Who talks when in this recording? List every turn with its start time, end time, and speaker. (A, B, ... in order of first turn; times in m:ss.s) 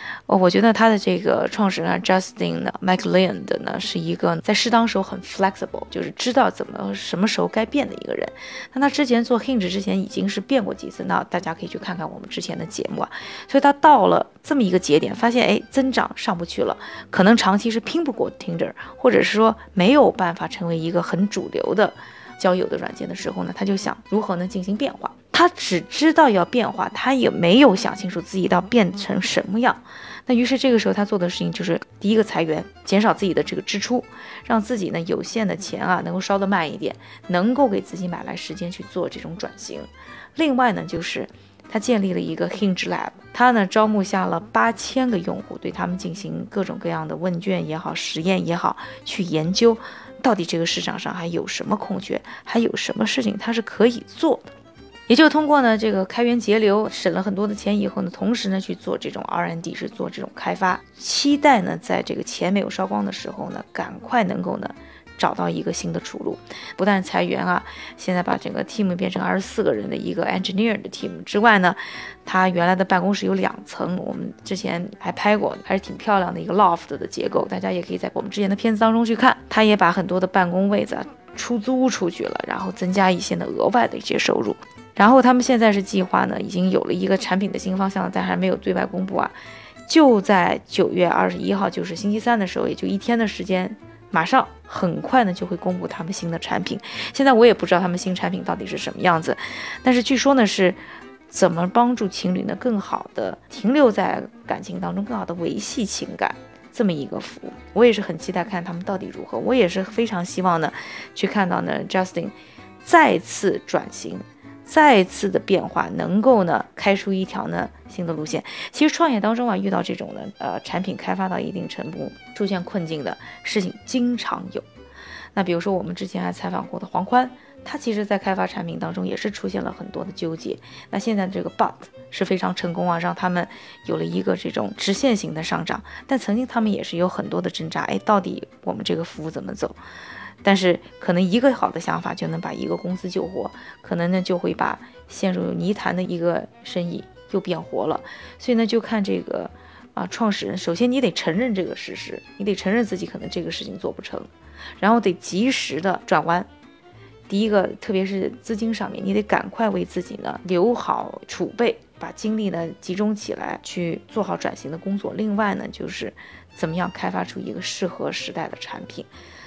0:00.3-0:54.5 A
0:55.1-1:29.3 A
1:29.9-2:04.7 A
2:05.3-2:19.8 A
2:20.4-2:36.5 A
2:37.3-2:49.1 A